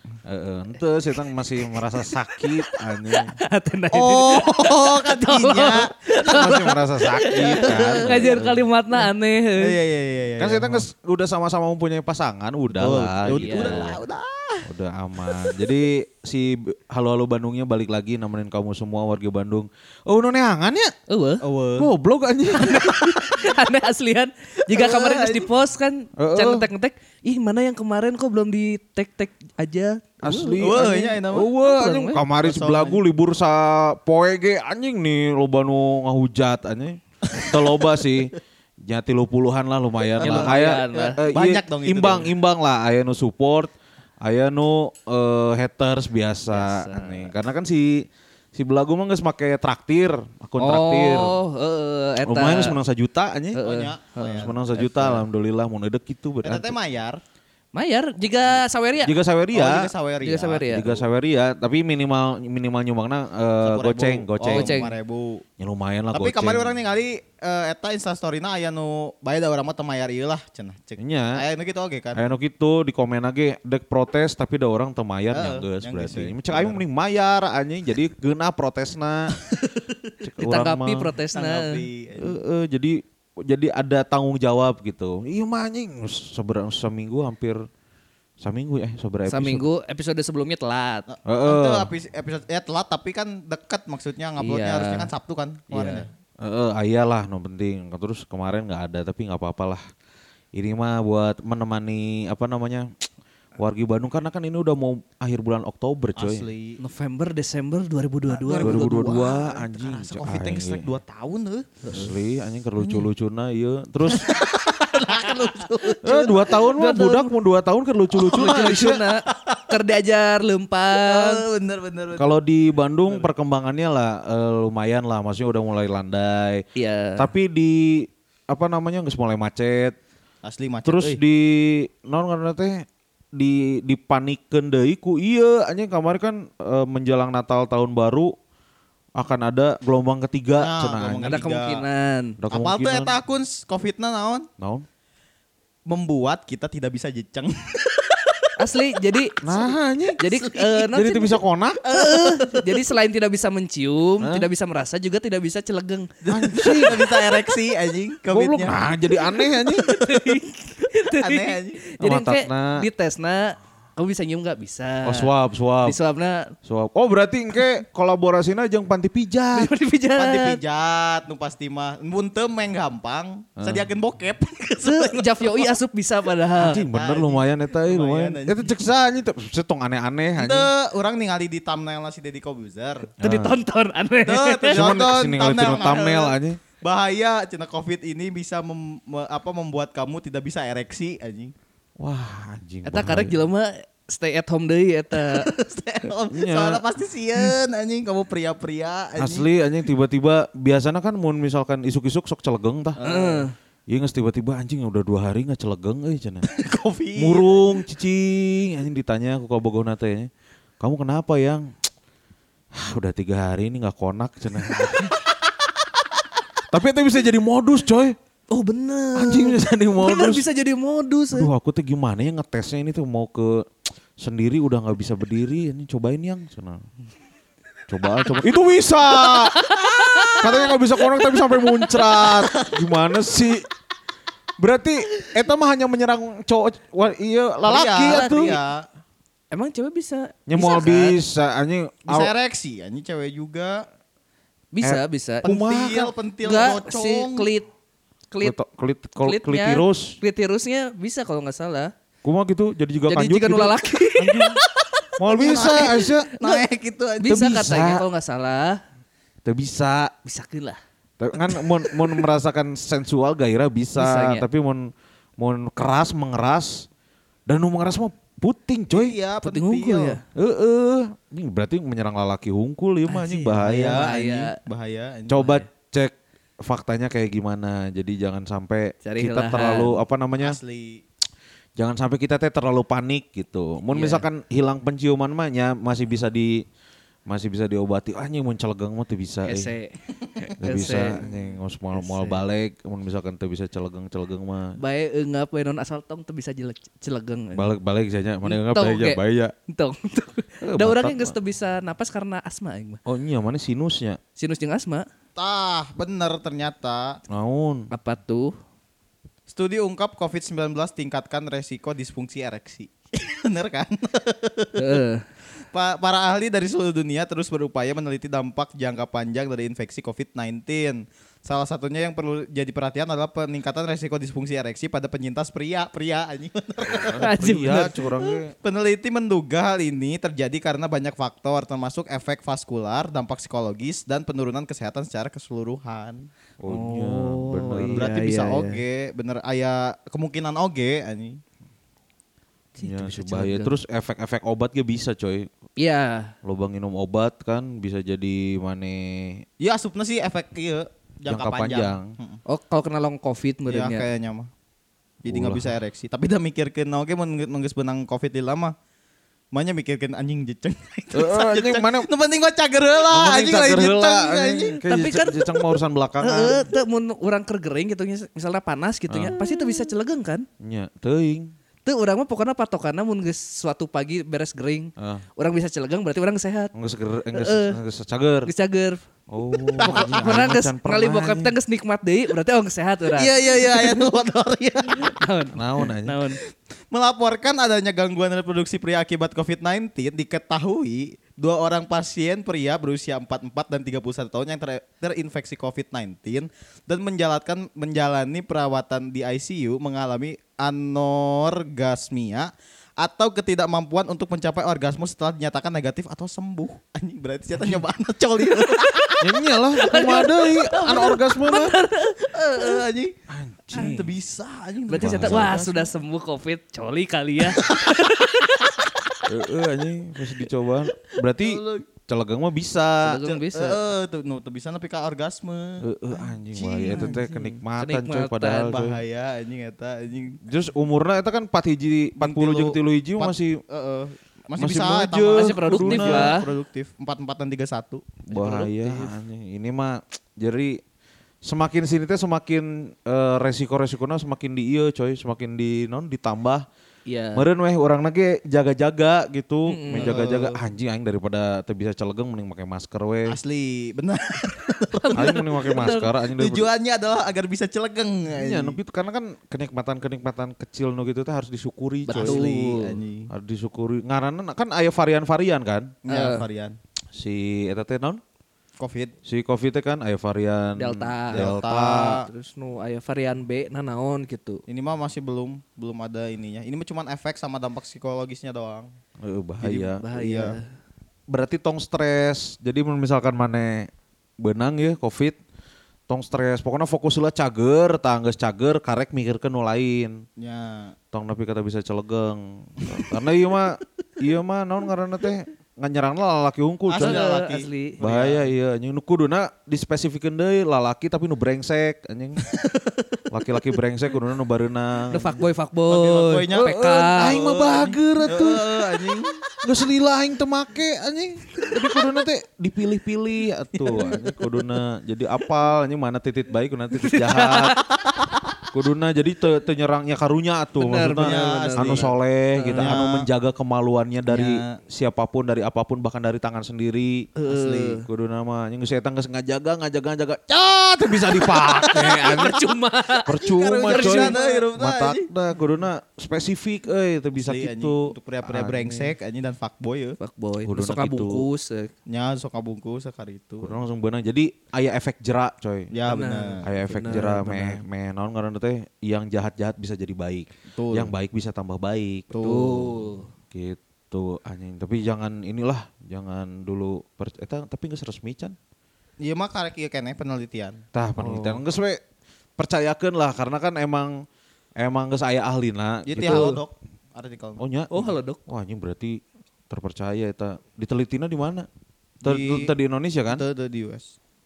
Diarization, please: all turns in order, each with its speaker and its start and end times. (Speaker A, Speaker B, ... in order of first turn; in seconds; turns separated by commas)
Speaker A: 0.3-3.3, Speaker B: 3.0-9.8, Speaker C: 3.9-5.9, Speaker A: 6.2-8.6, Speaker C: 7.3-9.0, Speaker C: 9.6-10.8, Speaker A: 10.4-14.0, Speaker C: 12.8-14.6, Speaker B: 13.2-13.9, Speaker A: 14.6-20.9, Speaker B: 21.1-21.4, Speaker C: 21.4-21.9, Speaker A: 21.8-23.3, Speaker B: 22.5-30.9, Speaker C: 24.7-25.5, Speaker A: 26.2-26.6, Speaker A: 30.2-51.3, Speaker C: 30.6-31.5, Speaker B: 31.6-32.2, Speaker C: 32.4-33.0, Speaker C: 40.2-42.3, Speaker B: 40.2-41.2, Speaker B: 46.5-47.3, Speaker B: 50.6-52.7, Speaker A: 52.2-53.6, Speaker B: 53.5-54.5, Speaker C: 53.6-55.2, Speaker A: 54.3-56.7, Speaker C: 56.4-57.2, Speaker B: 57.7-59.1, Speaker A: 59.0-59.9, Speaker C: 59.5-60.9, Speaker B: 60.2-60.9, Speaker A: 60.7-64.8, Speaker C: 63.6-65.4, Speaker B: 64.5-64.9, Speaker A: 65.6-66.7, Speaker C: 66.1-72.2, Speaker A: 71.0-71.4, Speaker A: 72.1-79.3, Speaker C: 75.3-76.8, Speaker A: 80.2-81.1, Speaker B: 80.4-81.8, Speaker C: 81.3-82.3, Speaker A: 82.2-87.6, Speaker A: 88.4-89.7, Speaker B: 89.3-91.0, Speaker C: 91.1-96.1, Speaker A: 91.3-91.9, Speaker B: 94.4-95.1, Speaker B: 95.7-96.0, Speaker A: 96.4-99.8, Speaker A: 100.5-102.9, Speaker A: 103.6-106.5, Speaker C: 106.2-106.8, Speaker B: 106.8-109.1, Speaker C: 108.3-111.7, Speaker A: 108.6-110.9, Speaker B: 111.8-112.1, Speaker A: 111.9-114.4, Speaker C: 114.1-116.5, Speaker A: 116.0-119.0, Speaker B: 116.7-117.3, Speaker B: 118.2-121.4, Speaker C: 119.3-119.6, Speaker C: 120.9-122.3, Speaker A: 122.2-126.6, Speaker B: 126.8-127.2, Speaker A: 127.2-129.9, Speaker C: 130.4-131.2, Speaker A: 130.8-132.8, Speaker A: 133.3-138.3, Speaker A: 139.2-141.4, Speaker C: 140.6-141.8, Speaker B: 141.2-142.3, Speaker A: 142.4-143.1, Speaker C: 142.5-144.5, Speaker A: 144.6-144.8, Speaker C: 145.9-148.5, Speaker B: 148.6-149.4, Speaker A: 149.4-150.2, Speaker B: 150.2-151.3, Speaker C: 150.2-150.8, Speaker A: 150.9-151.8, Speaker C: 151.8-152.6, Speaker B: 151.9-156.1, Speaker A: 154.2-154.5, Speaker C: 156.2-158.8, Speaker A: 156.3-157.1, Speaker A: 158.3-159.8, Speaker B: 159.5-165.3, Speaker C: 161.1-161.8, Speaker A: 162.0-162.8, Speaker A: 165.0-166.0, Speaker B: 165.8-166.5, Speaker A: 166.6-169.7, Speaker B: 169.5-170.6, Speaker C: 170.2-175.8, Speaker A: 173.6-173.8, Speaker B: 174.8-176.8, Speaker A: 176.6-180.7, Speaker C: 176.7-178.7, Speaker C: 180.3-183.1, Speaker A: 183.2-183.5, Speaker B: 183.2-184.7, Speaker C: 184.2-191.5, Speaker A: 184.7-186.6, Speaker A: 192.0-193.4, Speaker B: 192.8-195.5, Speaker C: 195.2-199.4, Speaker A: 196.3-196.8, Speaker A: 199.2-203.0, Speaker C: 203.0-203.4, Speaker B: 203.0-203.5, Speaker A: 203.9-206.5, Speaker C: 206.5-207.6, Speaker A: 207.2-211.7, Speaker A: 212.7-215.1, Speaker A: 216.7-218.2, Speaker B: 218.5-221.5, Speaker A: 219.2-220.4, Speaker A: 221.3-223.7, Speaker A: 224.2-226.8, Speaker A: 227.9-229.6, Speaker B: 229.6-230.5, Speaker A: 230.3-233.7, Speaker A: 234.6-238.6, Speaker C: 237.6-238.8, Speaker B: 238.1-238.5, Speaker B: 239.5-241.2, Speaker A: 240.5-242.3, Speaker C: 242.1-243.8, Speaker B: 244.7-245.4, Speaker A: 244.8-246.1, Speaker C: 245.4-247.5, Speaker B: 246.4-247.7, Speaker A: 248.4-250.2, Speaker B: 249.2-251.9, Speaker A: 252.2-254.6, Speaker B: 253.1-254.4, Speaker C: 255.2-257.4, Speaker A: 255.2-256.3, Speaker B: 256.4-256.6, Speaker B: 257.2-258.8, Speaker A: 257.3-258.0, Speaker A: 259.4-260.1, Speaker B: 260.2-260.8, Speaker A: 261.2-266.9, Speaker B: 263.9-264.4, Speaker A: 267.5-269.1, Speaker C: 268.9-270.2, Speaker B: 269.4-270.2, Speaker A: 270.3-274.0, Speaker B: 273.1-274.6, Speaker C: 273.6-275.6, Speaker A: 275.3-280.6, Speaker B: 279.0-280.0, Speaker C: 280.4-281.0, Speaker A: 281.8-286.6, Speaker B: 283.9-284.2, Speaker A: 287.3-289.7, Speaker B: 289.4-291.2, Speaker A: 290.6-294.8, Speaker C: 290.7-291.0, Speaker B: 291.9-292.4, Speaker B: 294.8-297.7, Speaker A: 297.5-299.5, Speaker B: 298.4-303.0, Speaker A: 300.6-301.3, Speaker A: 303.1-304.2, Speaker B: 304.4-305.1, Speaker C: 305.4-307.2, Speaker A: 307.3-307.9, Speaker B: 307.9-308.5, Speaker C: 309.5-314.8, Speaker B: 314.8-315.2, Speaker C: 315.7-336.3, Speaker A: 326.8-328.5, Speaker B: 327.2-327.9, Speaker A: 336.6-338.1, Speaker B: 336.7-338.8, Speaker C: 337.9-341.4, Speaker B: 342.8-343.7, Speaker A: 342.8-345.5, Speaker B: 345.8-346.3, Speaker A: 346.4-349.4, Speaker C: 349.6-352.4, Speaker A: 351.3-352.1, Speaker B: 352.5-354.1, Speaker C: 353.7-354.5, Speaker C: 355.2-358.7, Speaker A: 355.2-355.7, Speaker C: 359.5-364.8, Speaker A: 361.1-362.1, Speaker A: 363.1-366.6, Speaker B: 364.9-365.6, Speaker B: 366.2-370.5, Speaker A: 369.1-369.3, Speaker A: 370.6-371.5, Speaker B: 371.8-376.7, Speaker A: 375.0-375.2, Speaker A: 376.7-378.5, Speaker B: 377.3-377.8, Speaker B: 378.4-379.0, Speaker A: 379.3-381.5, Speaker C: 379.7-380.4, Speaker B: 379.8-384.0, Speaker C: 383.1-385.1, Speaker B: 384.9-386.4, Speaker A: 385.5-386.2, Speaker C: 386.9-409.1, Speaker A: 409.2-411.7, Speaker B: 409.8-412.8, Speaker C: 412.3-413.1, Speaker A: 413.3-414.1, Speaker C: 413.7-415.8, Speaker B: 414.9-418.8, Speaker A: 415.0-415.6, Speaker A: 419.3-423.2, Speaker C: 421.4-421.9, Speaker B: 423.0-423.8, Speaker C: 423.2-425.9, Speaker A: 425.8-429.0, Speaker C: 426.5-427.2, Speaker B: 426.9-428.7, Speaker C: 428.5-430.4, Speaker A: 430.4-433.6, Speaker C: 432.2-438.1, Speaker A: 434.6-436.3, Speaker B: 435.3-436.5, Speaker A: 438.3-440.8, Speaker B: 438.3-439.1, Speaker A: 441.4-446.6, Speaker B: 447.1-447.4, Speaker A: 447.3-453.4, Speaker B: 449.7-450.2, Speaker C: 450.0-450.6, Speaker C: 453.3-455.4, Speaker B: 454.9-456.1, Speaker A: 455.1-456.7, Speaker C: 456.4-458.8, Speaker A: 458.4-462.6, Speaker B: 462.1-463.0, Speaker C: 462.1-463.3, Speaker A: 463.3-465.9, Speaker C: 466.0-466.8, Speaker B: 466.1-466.4, Speaker A: 467.1-468.2, Speaker C: 468.8-469.1, Speaker A: 469.2-472.2, Speaker B: 470.8-474.6, Speaker C: 471.3-472.2, Speaker C: 474.7-478.9, Speaker A: 479.2-480.0, Speaker C: 479.6-480.6, Speaker B: 480.0-480.6, Speaker A: 481.3-485.4, Speaker A: 486.1-490.2, Speaker C: 490.4-490.9, Speaker A: 491.1-497.2, Speaker C: 496.9-498.4, Speaker B: 497.0-498.0, Speaker A: 498.0-502.4, Speaker A: 503.3-505.4, Speaker B: 505.1-507.4, Speaker C: 505.9-509.4, Speaker A: 506.5-508.8, Speaker A: 509.6-517.8, Speaker B: 517.0-517.8, Speaker A: 518.7-527.3, Speaker B: 520.8-522.9, Speaker C: 521.2-522.1, Speaker C: 522.7-523.3, Speaker C: 524.3-524.8, Speaker B: 527.4-528.0, Speaker C: 527.5-528.0, Speaker A: 528.0-532.6, Speaker B: 531.9-533.3, Speaker A: 533.2-539.1, Speaker C: 533.4-535.3, Speaker B: 533.9-534.6, Speaker C: 537.3-540.1, Speaker B: 540.2-541.9, Speaker A: 540.6-541.5, Speaker C: 542.1-543.8, Speaker A: 543.6-545.9, Speaker C: 545.9-546.6, Speaker B: 546.1-547.8, Speaker A: 546.6-552.3, Speaker C: 550.7-551.1, Speaker C: 552.3-553.0, Speaker B: 552.4-553.3, Speaker A: 553.5-558.5, Speaker C: 559.2-560.8, Speaker A: 560.9-562.0, Speaker B: 561.2-561.6, Speaker A: 562.6-564.2, Speaker A: 564.8-566.6, Speaker C: 566.1-567.6, Speaker B: 566.2-566.6, Speaker A: 567.6-569.2, Speaker B: 567.9-568.4, Speaker A: 569.7-571.7, Speaker C: 572.2-572.7, Speaker A: 572.2-573.4, Speaker C: 573.3-574.1